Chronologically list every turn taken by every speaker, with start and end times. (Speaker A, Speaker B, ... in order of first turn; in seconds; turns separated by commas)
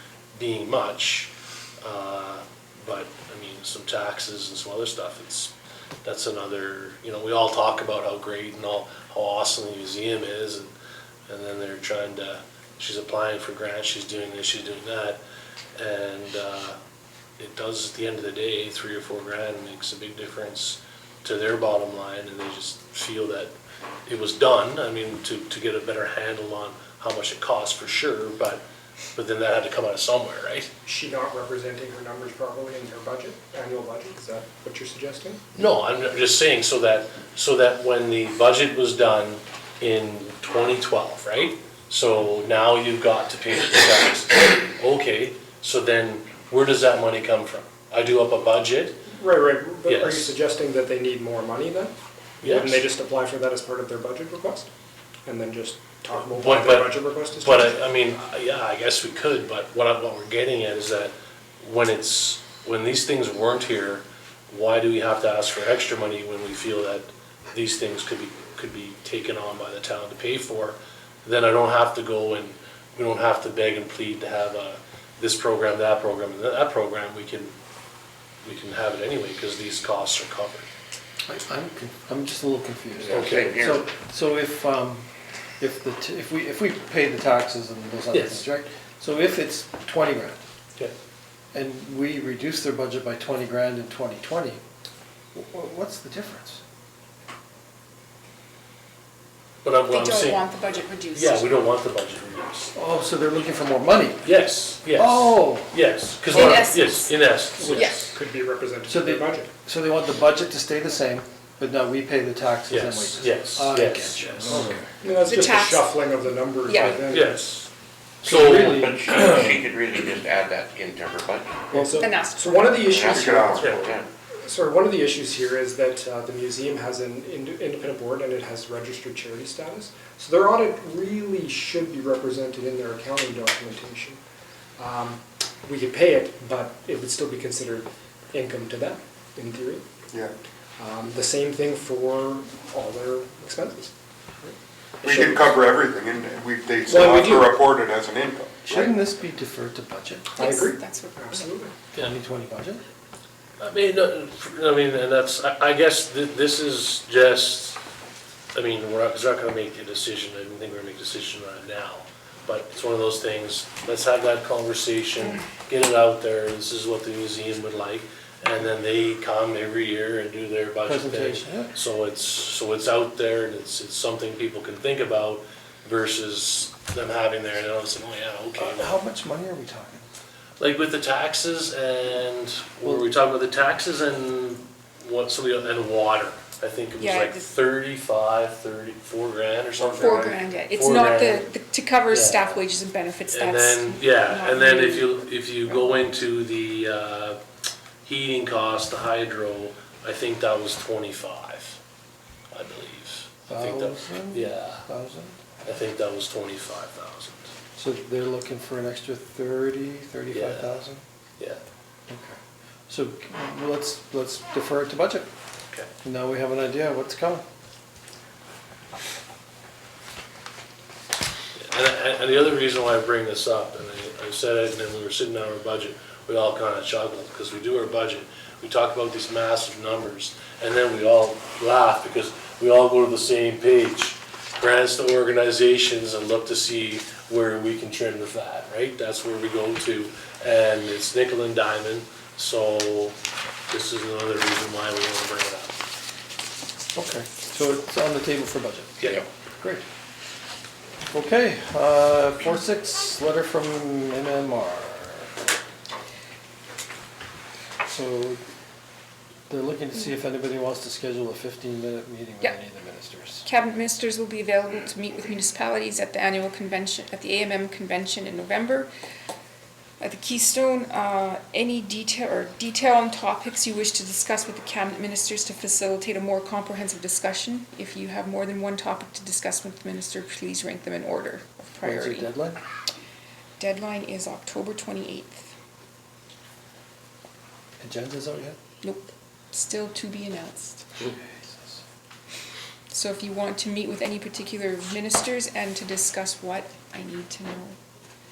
Speaker A: 0.4-5.5, Speaker A: 6.0-10.7, Speaker A: 11.3-15.2, Speaker A: 15.8-16.8, Speaker A: 17.4-23.5, Speaker A: 24.1-28.6, Speaker A: 29.1-30.7, Speaker B: 30.9-35.4, Speaker A: 35.6-49.0, Speaker B: 49.1-54.7, Speaker A: 49.9-50.4, Speaker A: 52.4-52.9, Speaker B: 55.3-57.8, Speaker A: 56.1-77.5, Speaker A: 78.4-80.7, Speaker C: 81.3-85.1, Speaker D: 83.0-83.9, Speaker A: 83.1-83.7, Speaker C: 85.6-90.4, Speaker A: 88.1-88.5, Speaker C: 91.5-94.6, Speaker C: 95.3-96.6, Speaker A: 99.6-100.5, Speaker E: 99.9-101.7, Speaker A: 101.1-102.7, Speaker C: 102.8-104.3, Speaker A: 104.2-108.2, Speaker C: 104.9-105.7, Speaker C: 106.3-106.6, Speaker E: 106.3-108.1, Speaker B: 107.6-109.5, Speaker C: 108.9-114.9, Speaker A: 112.7-114.8, Speaker B: 115.0-117.5, Speaker E: 115.2-117.1, Speaker A: 117.0-117.7, Speaker A: 118.2-119.0, Speaker B: 118.2-118.9, Speaker D: 118.6-121.7, Speaker B: 121.7-134.2, Speaker E: 121.7-122.9, Speaker D: 122.9-124.1, Speaker A: 123.6-123.9, Speaker B: 134.8-139.9, Speaker B: 140.8-145.5, Speaker F: 145.0-148.9, Speaker A: 145.1-145.3, Speaker B: 146.9-147.6, Speaker C: 148.7-150.4, Speaker E: 150.4-151.5, Speaker B: 150.4-151.7, Speaker C: 151.9-152.8, Speaker A: 153.6-157.8, Speaker A: 158.5-179.0, Speaker C: 170.8-171.8, Speaker C: 178.6-180.1, Speaker A: 180.6-191.5, Speaker E: 187.0-187.6, Speaker F: 189.8-190.3, Speaker E: 189.9-195.8, Speaker A: 192.1-192.6, Speaker A: 193.3-197.4, Speaker A: 198.1-201.8, Speaker A: 202.5-204.9, Speaker C: 203.5-205.4, Speaker A: 205.6-207.5, Speaker C: 207.8-211.0, Speaker A: 210.3-210.8, Speaker C: 212.1-215.3, Speaker C: 216.0-217.4, Speaker A: 221.6-243.2, Speaker A: 243.7-245.8, Speaker C: 246.9-249.1, Speaker A: 249.0-249.2, Speaker C: 249.6-249.8, Speaker C: 251.1-255.3, Speaker C: 257.9-258.4, Speaker C: 259.5-263.4, Speaker E: 263.4-268.9, Speaker E: 270.0-282.3, Speaker C: 281.8-282.6, Speaker E: 283.6-285.5, Speaker C: 287.8-288.6, Speaker E: 288.8-290.9, Speaker C: 291.0-291.8, Speaker E: 292.9-297.8